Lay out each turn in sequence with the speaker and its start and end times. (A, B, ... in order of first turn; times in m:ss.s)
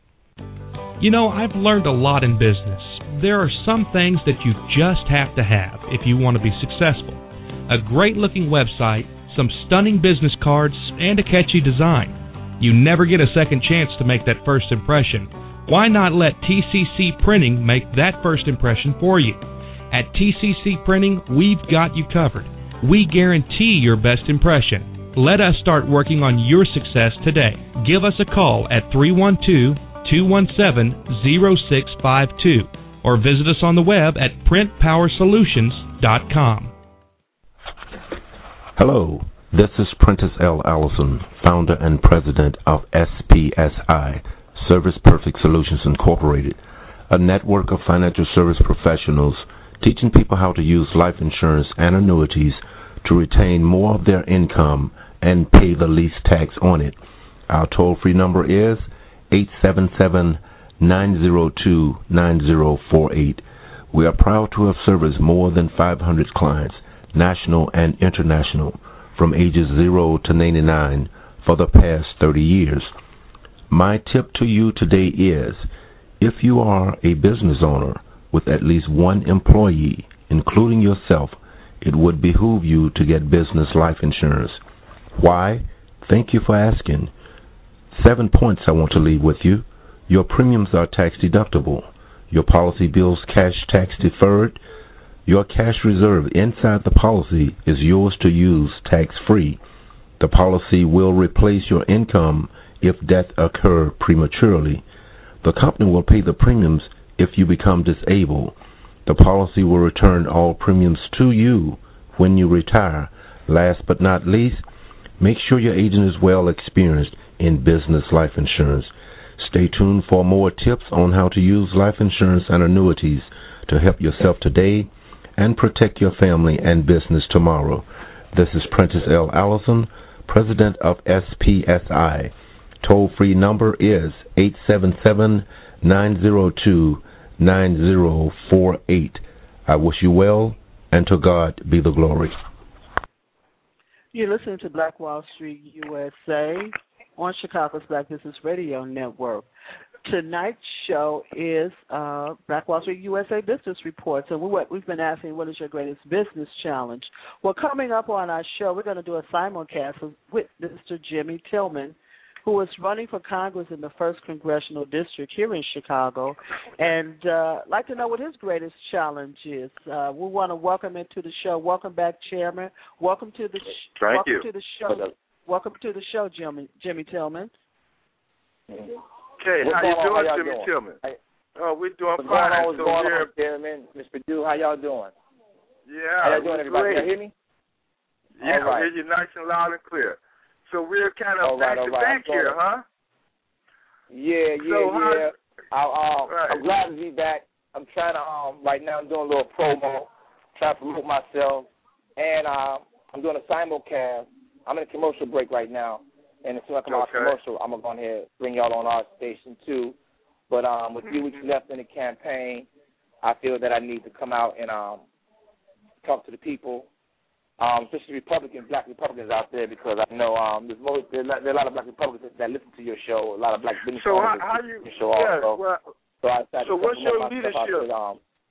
0:01.0-0:36.7 A
0:38.8-1:12.9 B
1:13.7-1:15.7 B
1:16.2-1:24.6 B
1:25.2-1:27.1 B
1:27.9-1:34.6 B
1:35.3-1:39.6 B
1:40.2-1:44.8 B
1:45.4-1:54.6 B
1:55.2-2:22.4 B
2:24.1-2:29.5 C
2:30.0-2:57.5 C
2:54.0-2:54.4 D
2:59.4-3:01.0 D
2:59.6-3:01.2 E
3:01.6-3:03.3 D
3:02.2-3:05.1 E
3:05.9-3:07.1 D
3:06.2-3:07.3 E
3:08.4-3:10.2 D
3:08.4-3:08.9 E
3:10.7-3:12.8 D
3:11.4-3:12.6 E
3:14.1-3:30.0 E
3:14.6-3:15.3 D
3:16.3-3:16.6 D
3:26.9-3:27.4 D
3:30.5-3:32.7 E
3:31.0-3:31.4 D
3:33.2-3:35.0 E
3:36.0-3:36.9 E
3:37.6-3:45.6 E
3:44.0-3:45.8 D
3:46.2-3:48.2 E
3:46.6-3:47.9 D